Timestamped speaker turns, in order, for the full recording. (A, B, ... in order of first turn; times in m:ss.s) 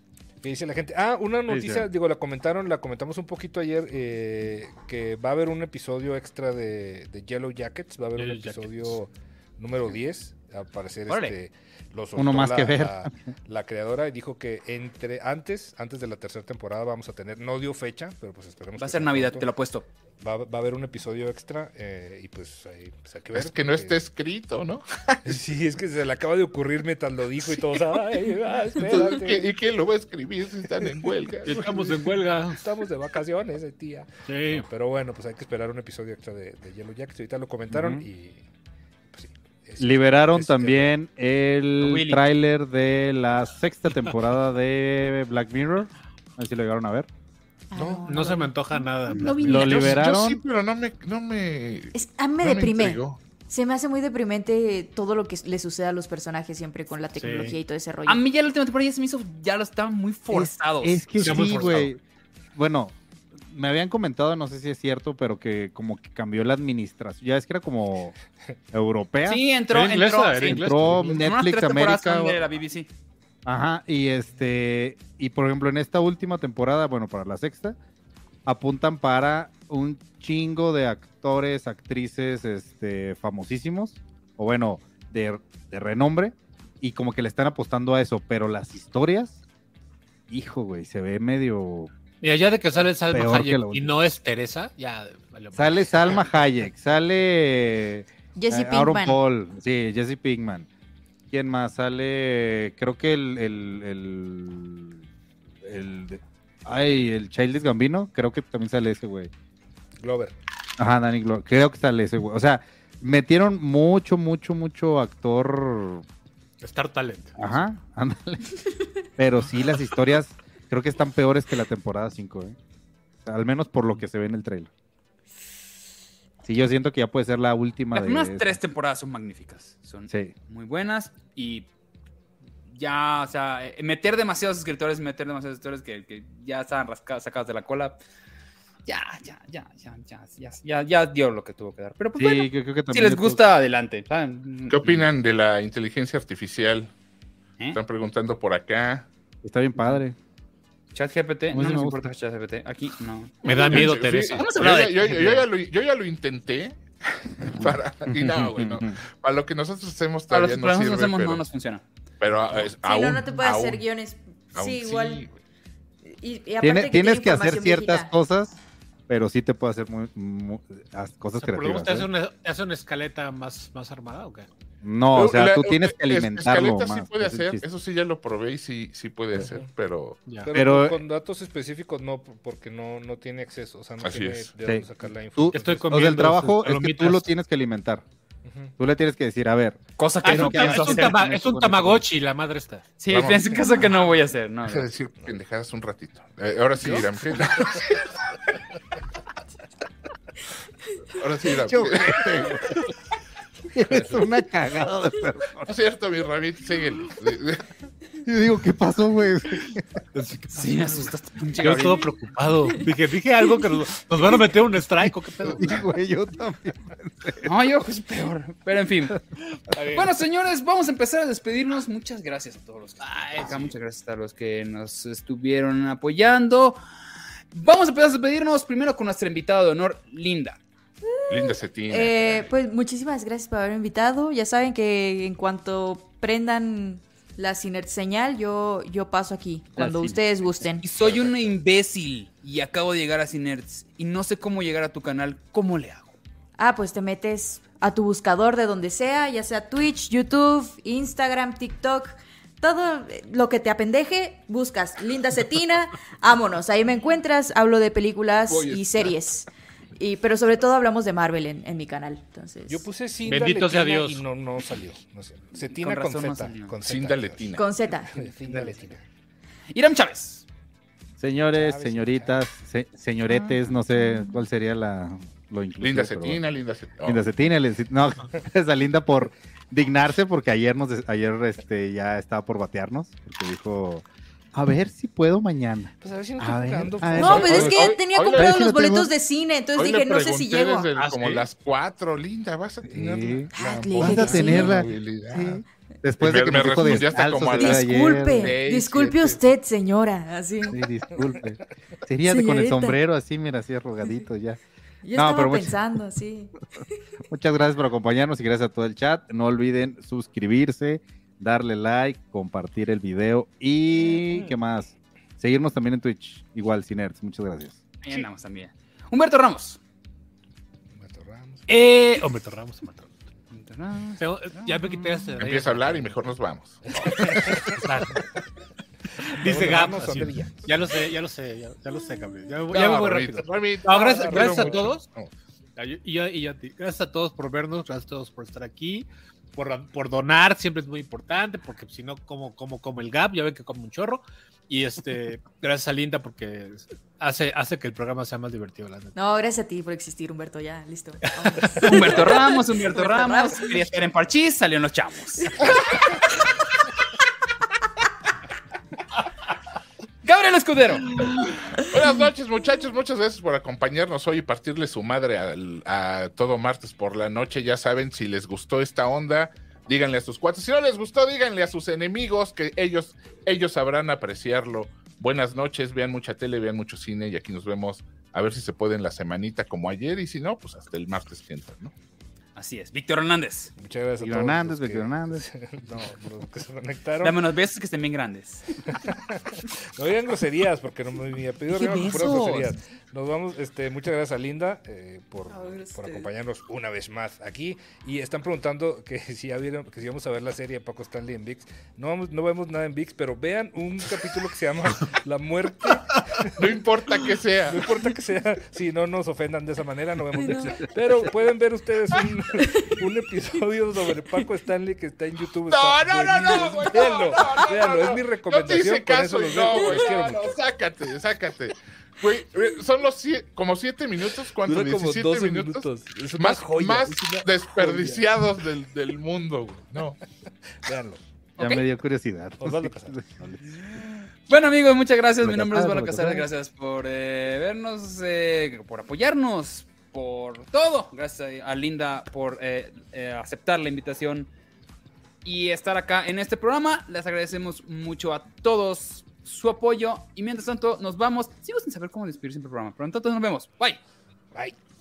0:00.4-0:19.5 A
0:01.5-0:01.9 B
0:08.1-0:09.0 C
0:11.1-0:11.3 D
0:12.2-0:13.1 B
0:18.8-0:19.9 D
0:20.2-0:24.0 A
0:23.3-0:25.2 E
0:25.2-0:29.5 A
0:28.8-0:31.7 E
0:31.4-0:32.6 C
0:31.6-0:38.4 A
0:34.3-0:34.6 C
0:37.7-0:38.0 B
0:39.1-0:40.9 A
0:39.8-0:47.1 B
0:41.8-0:42.2 D
0:47.7-0:49.7 F
0:47.8-0:49.9 C
0:49.4-0:50.4 B
0:49.4-0:53.2 E
0:51.9-0:58.2 F
0:57.2-0:57.6 C
0:58.0-1:01.9 D
1:00.3-1:02.0 B
1:01.2-1:01.9 C
1:02.5-1:08.1 B
1:08.7-1:09.4 B
1:09.2-1:12.9 D
1:09.7-1:11.3 C
1:10.4-1:12.4 B
1:13.4-1:17.8 B
1:18.4-1:29.4 B
1:30.3-1:31.9 B
1:32.2-1:36.4 C
1:33.1-1:33.9 B
1:35.5-1:40.7 B
1:38.4-1:39.2 F
1:41.3-1:45.0 B
1:45.6-1:49.3 B
1:50.0-1:50.3 A
1:50.8-1:56.0 B
1:56.6-1:57.5 C
1:57.4-1:58.5 B
1:59.2-2:02.6 B
2:03.2-2:04.7 B
2:06.4-2:08.6 B
2:07.9-2:11.7 D
2:12.7-2:18.0 D
2:18.8-2:25.0 D
2:22.2-2:23.4 B
2:24.7-2:26.9 E
2:27.7-2:29.1 E
2:29.4-2:30.2 B
2:30.9-2:35.4 D
2:31.5-2:32.0 B
2:33.4-2:35.4 C
2:33.7-2:41.4 E
2:37.6-2:38.9 B
2:40.3-2:41.8 D
2:42.2-2:43.8 E
2:42.7-2:45.2 F
2:44.5-2:45.3 E
2:46.1-2:48.1 F
2:46.6-2:52.1 B
2:51.4-2:54.5 C
2:54.8-2:57.6 B
2:55.1-3:00.2 E
2:59.4-2:59.7 A
3:00.2-3:00.5 C
3:00.4-3:06.1 A
3:00.5-3:01.0 B
3:04.0-3:04.5 E
3:05.4-3:08.0 B
3:05.5-3:07.3 C
3:08.8-3:12.0 B
3:10.0-3:11.1 D
3:10.2-3:12.9 C
3:13.0-3:14.9 D
3:13.1-3:13.6 E
3:14.7-3:18.1 E
3:21.2-3:22.5 E
3:21.6-3:22.8 B
3:23.7-3:25.7 B
3:25.6-3:27.7 E
3:28.2-3:30.0 B
3:30.2-3:35.7 C
3:30.5-3:32.0 D
3:35.4-3:37.5 B
3:37.4-3:39.2 D
3:39.7-3:40.0 C
3:39.8-3:46.8 D
3:43.0-3:43.7 C
3:47.5-3:50.6 D
3:51.1-4:00.8 F
3:51.3-3:52.4 E
3:59.8-4:00.2 B
4:00.8-4:06.2 D
4:06.6-4:22.9 F
4:18.5-4:19.2 E
4:22.7-4:27.6 A
4:23.2-4:24.2 C
4:25.5-4:26.7 D
4:26.8-4:27.6 E
4:27.6-4:28.2 F
4:28.1-4:29.0 A
4:29.7-4:30.4 D
4:31.2-4:36.4 B
4:31.6-4:32.3 A
4:35.8-4:37.2 E
4:37.0-4:49.1 B
4:46.0-4:47.8 A
4:47.1-4:50.9 F
4:47.2-4:48.6 E
4:49.8-4:55.6 E
4:51.0-4:51.5 C
4:52.9-4:58.6 B
4:53.5-4:54.8 F
4:56.2-4:59.4 E
4:57.5-5:00.8 F
5:00.7-5:04.6 B
5:02.2-5:03.0 F
5:05.0-5:06.6 F
5:05.1-5:06.0 B
5:07.2-5:17.8 B
5:18.0-5:19.8 D
5:20.9-5:21.6 A
5:21.7-5:23.2 C
5:23.5-5:24.8 D
5:24.2-5:26.2 C
5:25.4-5:26.8 E
5:26.9-5:27.8 A
5:27.1-5:28.2 C
5:29.3-5:30.6 A
5:29.3-5:35.1 C
5:32.7-5:35.3 E
5:34.1-5:34.9 A
5:35.8-5:49.1 C
5:49.1-5:53.8 F
5:51.4-5:52.2 C
5:51.8-5:56.2 D
6:00.2-6:01.2 D
6:01.8-6:21.9 E
6:22.6-6:23.7 D
6:23.8-6:27.4 A
6:24.2-6:25.5 B
6:27.2-6:28.9 D
6:28.9-6:46.6 A
6:31.7-6:32.7 D
6:35.5-6:36.3 F
6:46.6-6:47.9 E
6:47.7-7:00.6 A
6:50.4-6:50.8 F
6:55.7-7:10.2 E
6:59.7-7:00.0 F
7:04.6-7:08.2 A
7:10.8-7:11.2 A
7:11.6-7:11.8 D
7:11.6-7:13.8 B
7:12.6-7:13.2 A
7:14.5-7:24.5 D
7:15.4-7:16.5 B
7:25.4-7:34.0 D